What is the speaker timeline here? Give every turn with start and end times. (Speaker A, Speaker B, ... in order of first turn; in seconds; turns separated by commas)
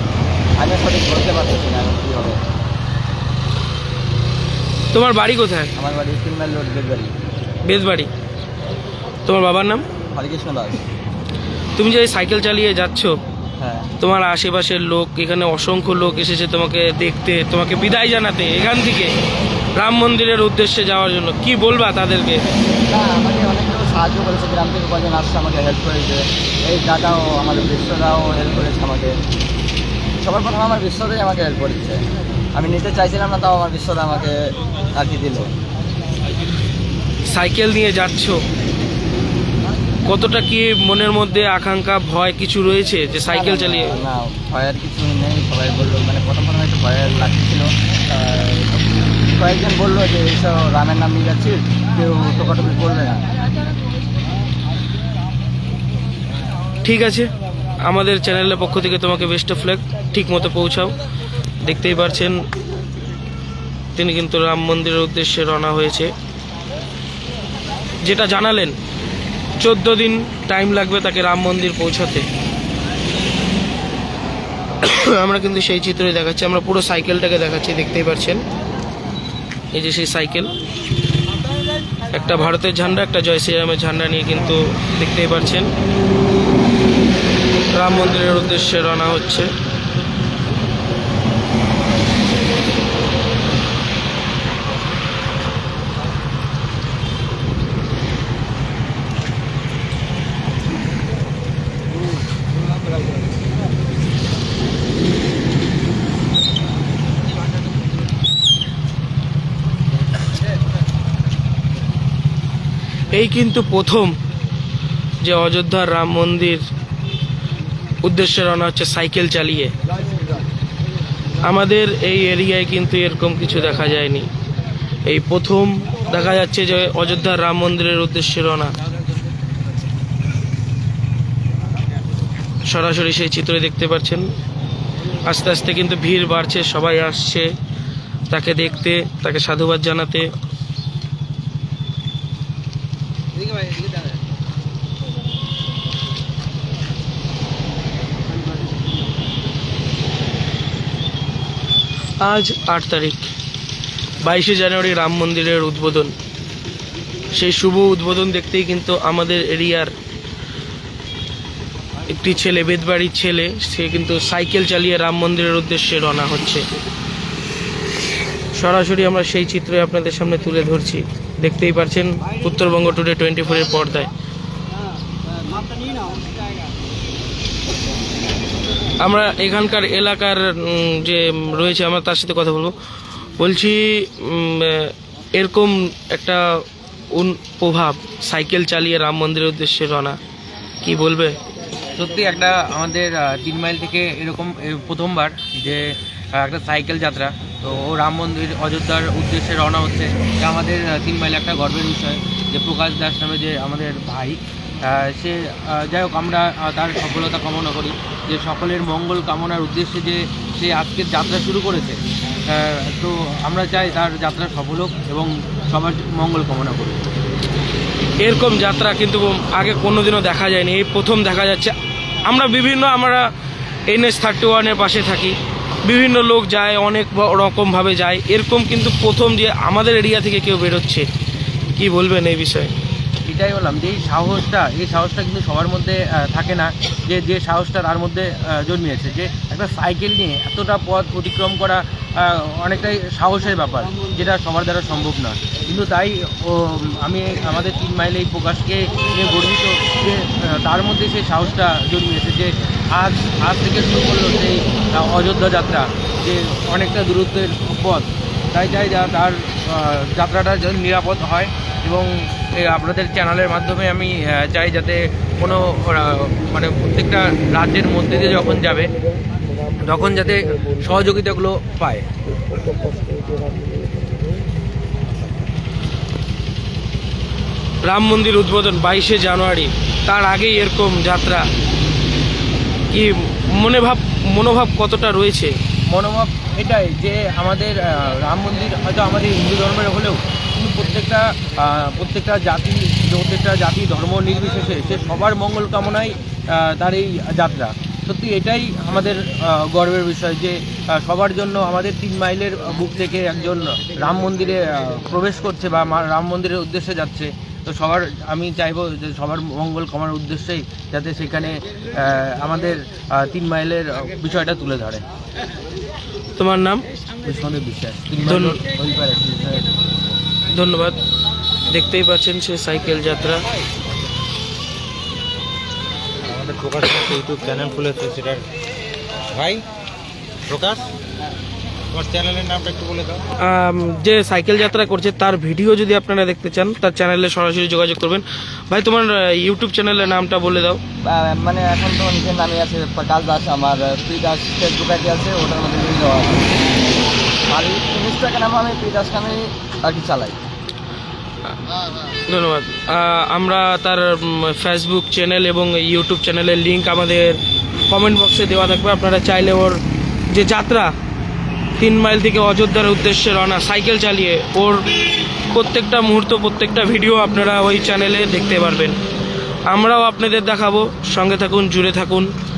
Speaker A: 0.6-2.4, Speaker B: 4.9-5.7, Speaker A: 5.8-7.1, Speaker B: 7.6-8.1, Speaker B: 9.2-9.8, Speaker A: 10.1-10.8, Speaker B: 11.8-13.2, Speaker A: 13.6-13.9, Speaker B: 14.0-19.1, Speaker B: 19.7-22.4, Speaker A: 22.9-29.2, Speaker A: 30.2-32.0, Speaker A: 32.5-35.5, Speaker B: 37.3-38.4, Speaker B: 40.0-44.0, Speaker A: 43.3-48.8, Speaker A: 49.4-53.2, Speaker B: 56.8-57.3, Speaker B: 57.8-60.9, Speaker B: 61.6-62.4, Speaker B: 63.9-66.1, Speaker B: 68.0-68.7, Speaker B: 69.6-72.3, Speaker B: 74.8-78.4, Speaker B: 79.7-80.5, Speaker B: 82.1-85.7, Speaker B: 87.7-89.5, Speaker B: 113.1-114.2, Speaker B: 115.2-116.6, Speaker B: 118.0-119.7, Speaker B: 121.4-124.3, Speaker B: 125.0-128.7, Speaker B: 132.6-134.2, Speaker B: 135.2-137.5, Speaker B: 138.3-140.3, Speaker B: 152.2-153.3, Speaker B: 154.2-156.1, Speaker B: 157.3-159.9, Speaker B: 162.1-166.6, Speaker B: 168.5-174.1, Speaker B: 179.0-182.7, Speaker B: 183.4-190.2, Speaker B: 190.8-191.4, Speaker C: 191.9-217.0, Speaker B: 218.2-223.2, Speaker B: 223.9-231.1, Speaker B: 231.7-232.7, Speaker C: 233.3-268.9, Speaker C: 269.8-272.1, Speaker B: 277.8-281.4, Speaker B: 282.9-285.5, Speaker C: 285.9-315.0, Speaker B: 316.4-316.8, Speaker C: 317.2-319.6, Speaker B: 318.2-318.6, Speaker B: 320.5-321.0, Speaker B: 321.7-323.4, Speaker D: 326.2-328.5, Speaker D: 329.3-329.6, Speaker D: 330.5-330.9, Speaker D: 331.9-333.2, Speaker B: 333.4-340.8, Speaker A: 341.0-346.6, Speaker A: 347.5-350.4, Speaker B: 352.3-360.9, Speaker B: 361.8-369.0, Speaker B: 369.7-372.3